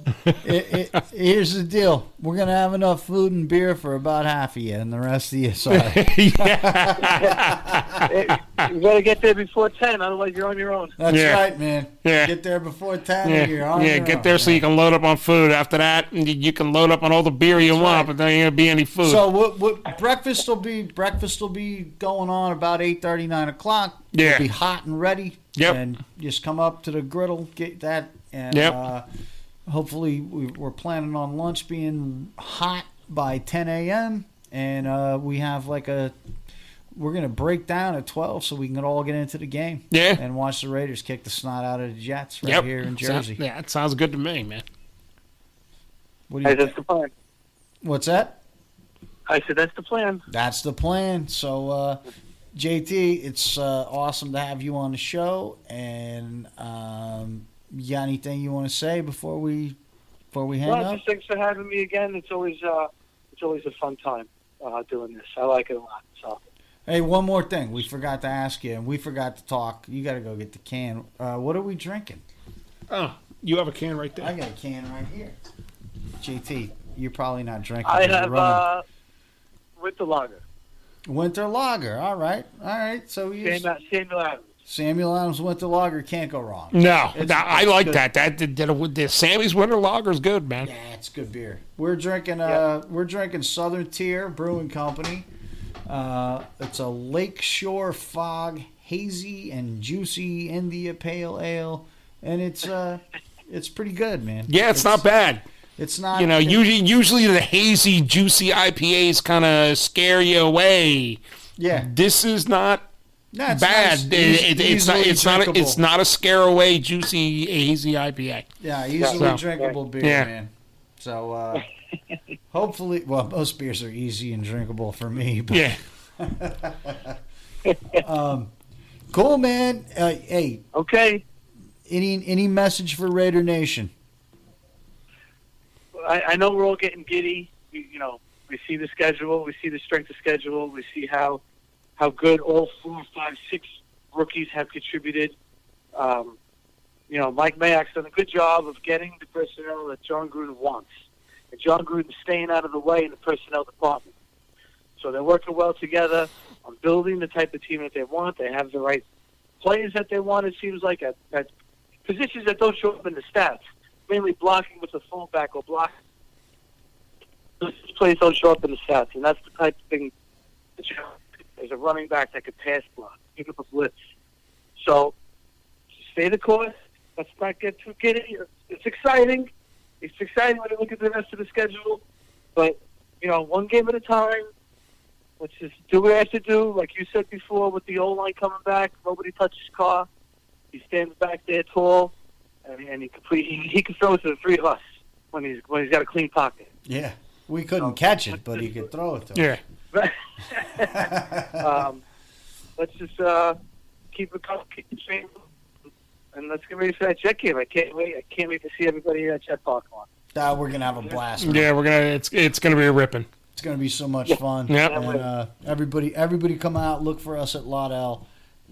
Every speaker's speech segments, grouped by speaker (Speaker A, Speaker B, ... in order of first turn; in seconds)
Speaker A: 0.4-8.1, 11.0-14.6, 17.6-18.1, 19.0-29.1, 29.7-36.1, 36.9-43.4, 46.3-46.8, 47.8-48.4, 50.3-52.0, 52.5-59.8, 60.3-61.0, 66.9-72.2, 74.2-75.4, 76.2-78.6, 81.1-83.7, 84.7-88.0, 90.6-95.3, 95.9-105.0, 105.8-106.6, 111.6-111.9, 113.3-115.8, 118.6-121.7, 122.5-127.2, 128.0-128.5, 129.1-130.7, 131.9-133.9, 196.9-199.5, 200.9-201.7, 210.3-211.7, 213.6-218.3
Speaker B: 5.7-7.6, 11.1-11.4, 12.0-12.3, 13.2-19.2, 24.1-24.5, 39.9-40.2, 42.4-44.6, 72.9-74.3, 86.7-90.7, 104.5-105.4, 106.2-111.2, 111.7-112.9, 113.5-118.5, 120.0-120.3, 125.5-125.8, 211.4-213.3, 214.7-214.9
Speaker C: 8.1-10.9, 46.4-47.1, 49.3-50.2, 60.7-66.4, 77.8-78.8, 79.8-80.4, 83.4-84.5, 119.0-119.7, 127.7-128.0, 130.7-131.2, 135.9-141.4, 142.0-145.4, 145.9-146.4, 147.1-150.9, 151.5-154.1, 155.0-159.0, 159.6-161.5, 162.1-165.9, 167.6-170.1, 170.8-173.9, 174.8-175.2, 176.0-179.5, 180.0-182.0, 182.6-184.5, 185.4-190.1, 190.7-192.1, 192.7-196.7, 199.9-202.0, 202.8-203.6, 204.1-205.5, 206.3-210.1, 214.9-215.2